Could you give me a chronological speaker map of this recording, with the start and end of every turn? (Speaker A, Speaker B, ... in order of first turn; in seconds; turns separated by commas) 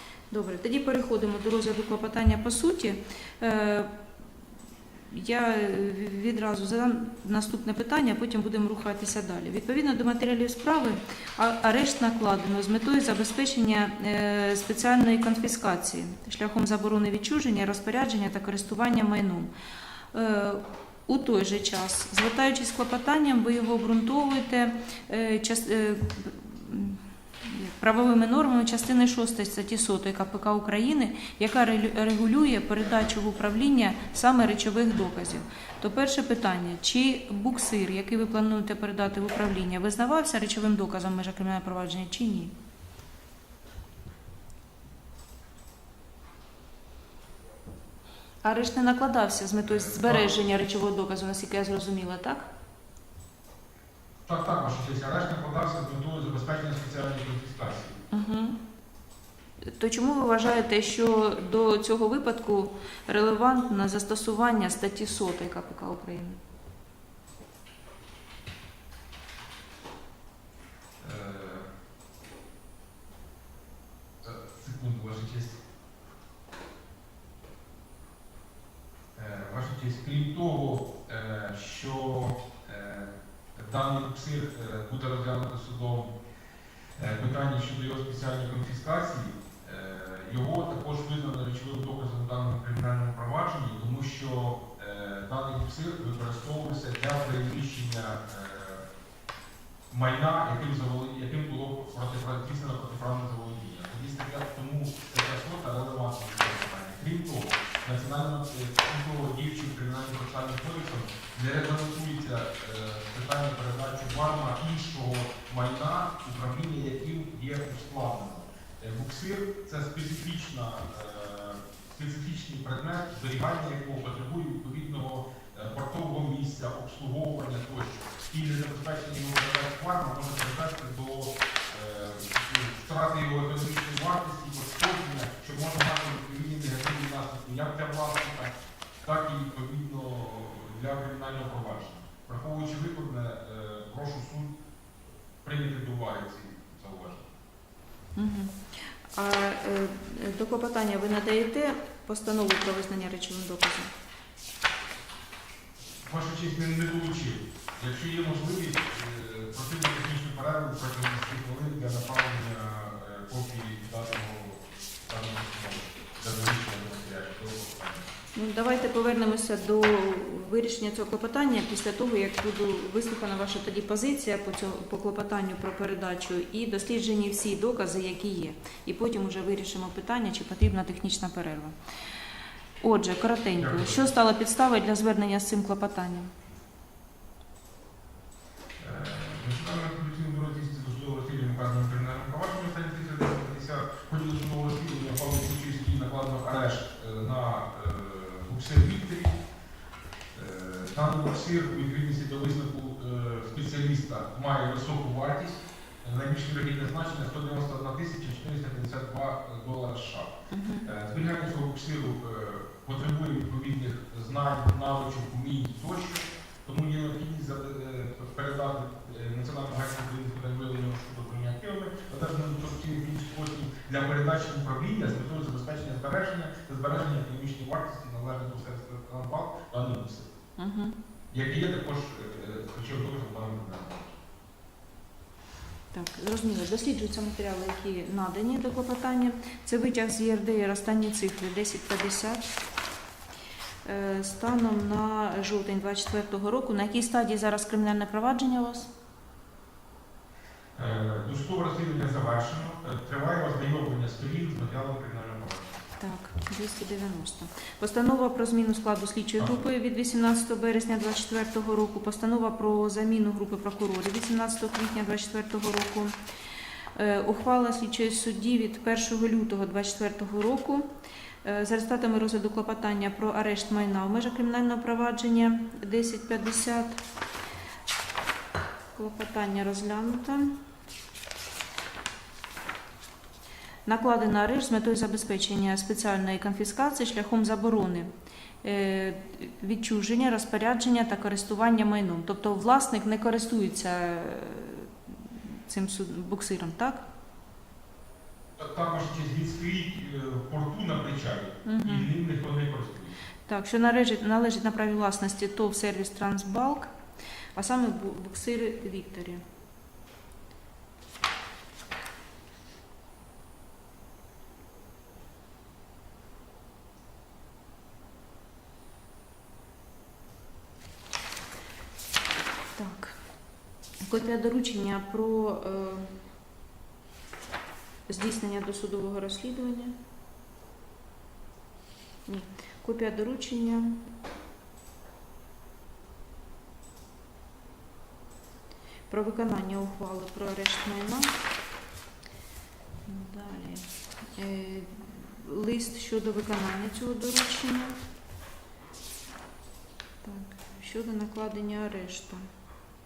Speaker A: 0.3-3.9, Speaker A: 5.1-19.5, Speaker A: 20.1-42.5, Speaker A: 48.4-52.5, Speaker B: 49.6-50.3, Speaker B: 54.3-58.0, Speaker A: 58.1-58.6, Speaker A: 59.7-66.4, Speaker B: 71.0-71.7, Speaker B: 74.2-75.6, Speaker B: 79.1-86.1, Speaker B: 87.0-98.8, Speaker B: 99.9-144.5, Speaker B: 145.4-147.3, Speaker A: 148.2-153.9, Speaker B: 156.0-168.1, Speaker A: 168.3-181.8, Speaker A: 182.8-186.3, Speaker B: 183.6-184.1, Speaker B: 188.8-199.4, Speaker B: 200.3-210.3, Speaker A: 210.5-210.9, Speaker B: 210.8-230.3, Speaker A: 230.6-231.0, Speaker B: 231.3-234.2, Speaker A: 235.9-242.6, Speaker A: 243.8-248.9, Speaker B: 250.8-255.7, Speaker A: 256.0-266.1, Speaker A: 266.9-270.9, Speaker A: 271.4-277.0, Speaker A: 278.9-280.6, Speaker A: 283.9-288.1, Speaker A: 288.6-297.0, Speaker B: 298.6-303.2, Speaker A: 301.6-302.1, Speaker A: 303.5-306.9, Speaker A: 307.5-309.4, Speaker A: 322.8-323.2, Speaker A: 324.0-326.2, Speaker A: 328.1-329.9, Speaker A: 332.3-334.1, Speaker A: 339.1-341.3, Speaker A: 343.1-343.8, Speaker A: 344.4-348.0, Speaker A: 350.2-352.4